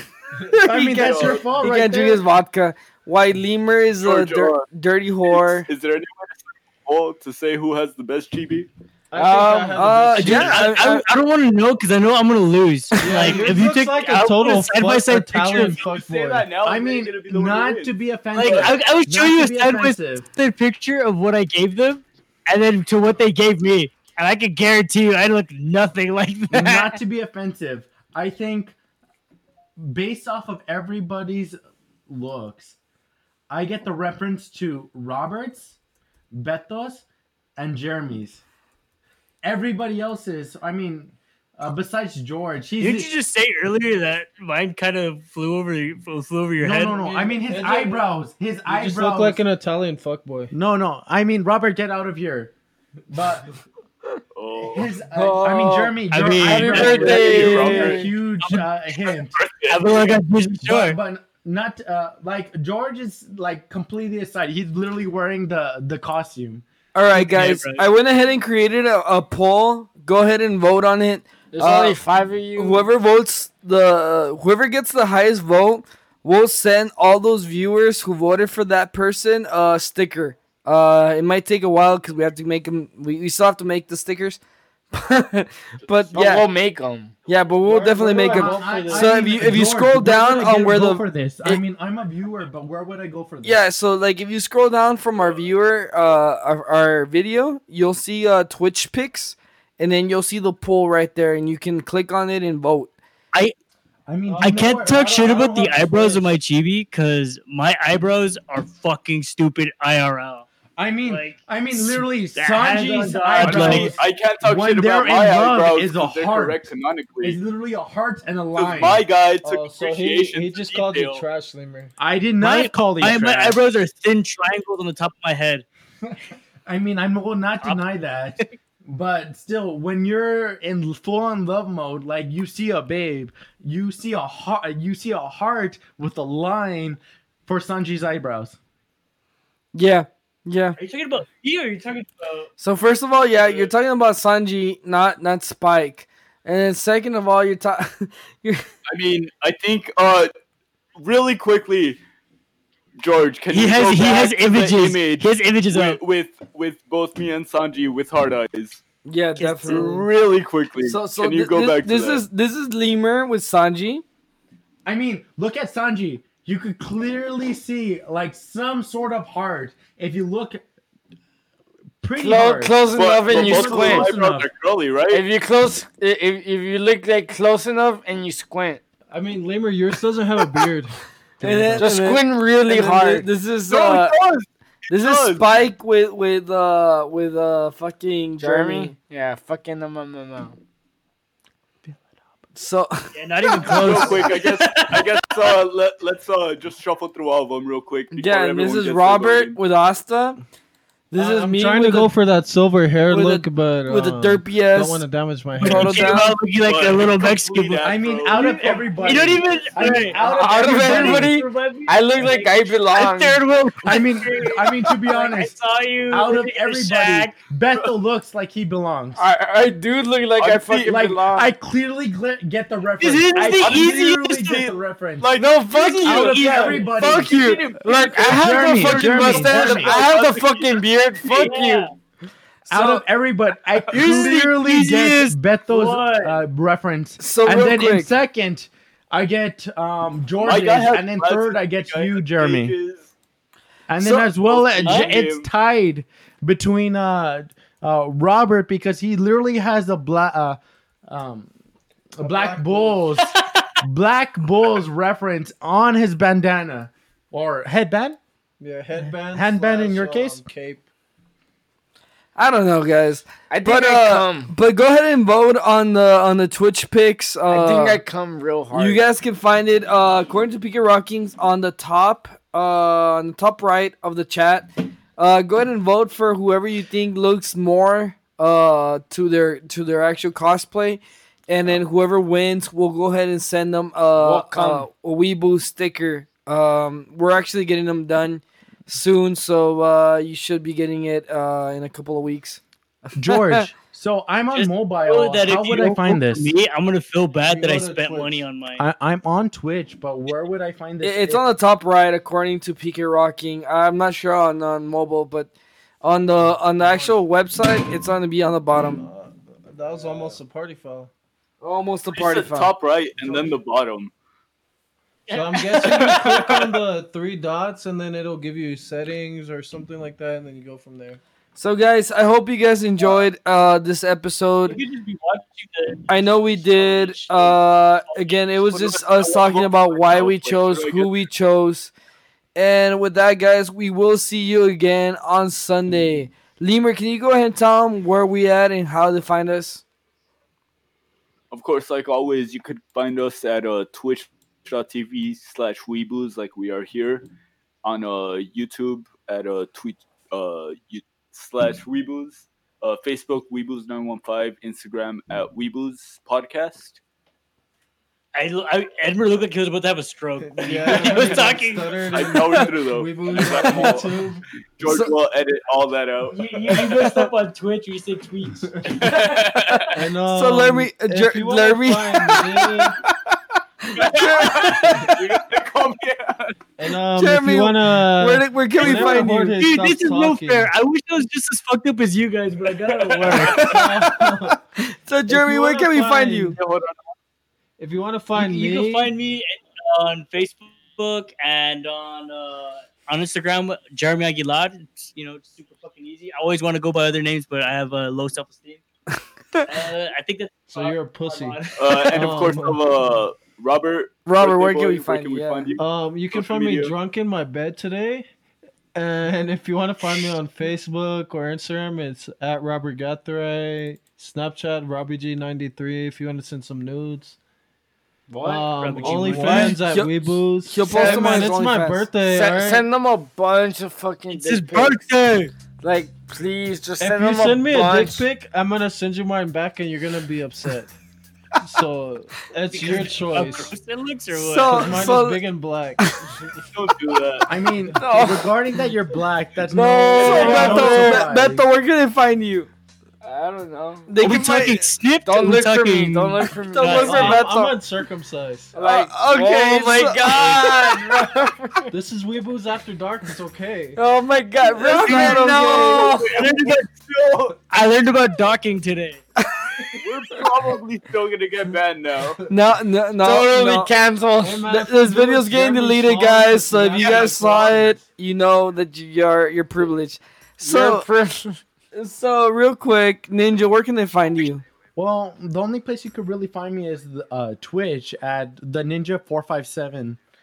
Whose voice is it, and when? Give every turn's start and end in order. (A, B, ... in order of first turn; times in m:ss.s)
0:00.4-0:00.7 A
0:00.5-0:05.7 B
0:00.6-0:02.2 C
0:00.9-0:01.4 D
0:04.0-0:04.7 D
0:05.2-0:08.7 D
0:09.1-0:10.7 A
0:09.2-0:11.0 B
0:10.2-0:10.7 D
0:10.2-0:15.8 E
0:13.0-0:16.5 A
0:15.5-0:18.8 D
0:16.6-0:20.2 C
0:18.3-0:27.0 E
0:26.5-0:28.8 C
0:29.8-0:32.8 C
0:33.5-0:35.8 C
0:36.3-0:37.0 C
0:37.6-0:38.4 C
0:39.4-0:43.1 C
0:42.8-0:47.0 E
0:46.6-0:49.4 C
0:46.9-0:48.1 A
0:48.6-0:50.5 A
0:50.5-0:52.5 C
0:53.1-0:53.5 C
0:54.3-0:55.0 D
0:54.6-0:59.4 C
0:55.1-0:58.1 F
0:56.1-0:57.0 E
0:56.5-0:58.1 D
0:58.9-1:00.1 D
0:59.7-1:01.0 E
1:00.6-1:06.6 C
1:06.9-1:12.0 B
1:07.1-1:07.8 E
1:11.5-1:12.8 F
1:12.6-1:24.4 B
1:24.9-1:26.5 B
1:25.9-1:26.4 D
1:26.1-1:27.1 F
1:27.3-1:31.6 B
1:27.6-1:29.5 A
1:28.2-1:33.6 C
1:33.4-1:42.9 B
1:44.1-1:46.2 C
1:44.3-1:46.1 A
1:44.4-1:50.5 E
1:50.8-1:56.7 C
1:51.0-1:53.9 E
1:52.8-1:53.7 A
1:53.4-1:57.4 D
1:57.2-1:59.0 C
1:58.5-2:01.2 D
1:59.4-2:01.9 A
2:02.0-2:03.6 C
2:02.4-2:05.6 E
2:06.1-2:18.6 C
2:19.7-2:20.8 B
2:20.8-2:22.5 E
2:22.6-2:28.6 B
2:23.4-2:23.7 D
2:28.9-2:30.3 D
2:31.0-2:32.0 D
2:33.0-2:38.8 D
2:33.5-2:36.0 E
2:39.0-2:40.0 B
2:39.4-2:40.0 E
2:39.7-2:42.2 D
2:40.8-2:44.0 B
2:44.8-2:50.6 C
2:52.0-2:54.5 C
2:52.2-2:54.1 F
2:52.9-2:55.2 D
2:55.1-2:58.8 F
2:59.1-3:01.9 A
3:01.4-3:04.2 B
3:01.8-3:03.3 F
3:03.7-3:05.5 D
3:04.9-3:08.9 B
3:08.4-3:10.6 F
3:12.5-3:14.2 B
3:13.1-3:15.4 E
3:13.7-3:19.6 D
3:18.1-3:20.4 B
3:21.1-3:22.1 B
3:21.1-3:26.1 A
3:23.1-3:25.0 B
3:25.5-3:37.3 E
3:25.6-3:26.3 B
3:26.5-3:29.4 D
3:27.8-3:31.4 C
3:29.8-3:33.4 F
3:33.8-3:35.5 C
3:36.1-3:39.2 C
3:39.2-3:41.5 F
3:40.4-3:41.1 D
3:40.8-3:45.3 C
3:43.0-3:44.6 E
3:43.6-3:51.7 D
3:45.3-3:51.9 F
3:46.0-3:47.3 C
3:48.2-3:50.0 C
3:51.4-3:51.9 E
3:52.7-4:02.7 C
3:53.9-3:56.4 E
3:57.2-3:58.1 B
4:00.4-4:03.1 D
4:03.9-4:11.5 C
4:04.0-4:04.3 B
4:04.3-4:05.5 D
4:04.8-4:05.1 E
4:12.2-4:18.2 C
4:12.2-4:13.1 A
4:18.6-4:20.8 A
4:19.3-4:20.4 C
4:22.4-4:28.0 B
4:23.5-4:24.5 F
4:27.5-4:29.0 F
4:28.7-4:52.6 B
4:44.2-4:44.8 F
4:53.2-4:56.5 C
4:53.2-4:53.7 B
4:54.5-4:58.8 E
4:57.4-4:58.4 A
4:58.8-5:01.4 C
5:01.0-5:05.5 B
5:06.0-5:09.0 B
5:06.8-5:07.2 A
5:08.8-5:11.1 A
5:11.6-5:12.7 B
5:12.1-5:14.1 D
5:13.2-5:13.6 A
5:15.3-5:16.6 E
5:15.3-5:21.2 A
5:15.8-5:16.8 D
5:21.5-5:24.8 B
5:24.6-5:27.5 E
5:26.1-5:31.9 B
5:28.5-5:31.2 D
5:32.6-5:39.8 B
5:41.5-5:47.3 D
5:47.8-5:57.0 D
5:58.3-6:02.5 E
6:00.4-6:04.4 A
6:02.1-6:04.2 D
6:03.3-6:04.0 E
6:04.8-6:06.4 D
6:04.8-6:05.1 B
6:06.3-6:09.4 E
6:08.9-6:10.0 D
6:09.7-6:12.9 B
6:09.9-6:13.0 A
6:13.8-6:15.1 B
6:14.0-6:16.6 D
6:14.2-6:15.0 E
6:16.8-6:20.7 A
6:17.1-6:19.5 B
6:18.8-6:23.8 E
6:23.0-6:23.7 D
6:23.3-6:24.3 B
6:23.5-6:24.6 A
6:25.0-6:26.5 B
6:25.3-6:26.6 A
6:26.5-6:27.0 D
6:27.8-6:29.1 A
6:28.3-6:38.8 E
6:39.6-6:41.9 E
6:40.7-6:42.8 A
6:41.8-6:46.9 D
6:44.2-6:45.7 B
6:45.8-6:48.3 A
6:48.9-6:57.4 A
6:58.3-6:59.7 F
6:58.4-7:02.8 A
6:58.8-6:59.9 E
6:59.5-7:02.1 B
7:00.8-7:01.5 F
7:02.2-7:05.0 F
7:04.3-7:05.5 E
7:05.8-7:08.2 F
7:07.0-7:10.9 A
7:11.6-7:13.7 A
7:12.7-7:15.1 E
7:14.3-7:15.4 B
7:14.7-7:16.6 A
7:16.7-7:17.5 D
7:17.4-7:21.6 C
7:18.0-7:18.5 F
7:19.7-7:21.3 F
7:19.7-7:22.7 B
7:20.2-7:20.8 D
7:20.3-7:21.2 A
7:23.2-7:24.1 F
7:24.1-7:24.9 B
7:24.2-7:27.4 E
7:25.2-7:27.8 F
7:26.9-7:28.7 A
7:28.7-7:31.9 F
7:28.8-7:31.2 B
7:31.9-7:34.0 A
7:34.0-7:36.4 F
7:34.7-7:36.2 B
7:35.0-7:35.6 E
7:35.8-7:37.6 D
7:36.2-7:36.9 E
7:37.7-7:39.2 E
7:40.0-7:42.4 D
7:42.5-7:43.9 B
7:43.2-7:44.7 F
7:44.4-7:48.0 A
7:44.6-7:51.0 B
7:47.0-7:47.3 D
7:50.6-7:51.6 F
7:51.9-7:54.6 B
7:55.0-8:00.2 C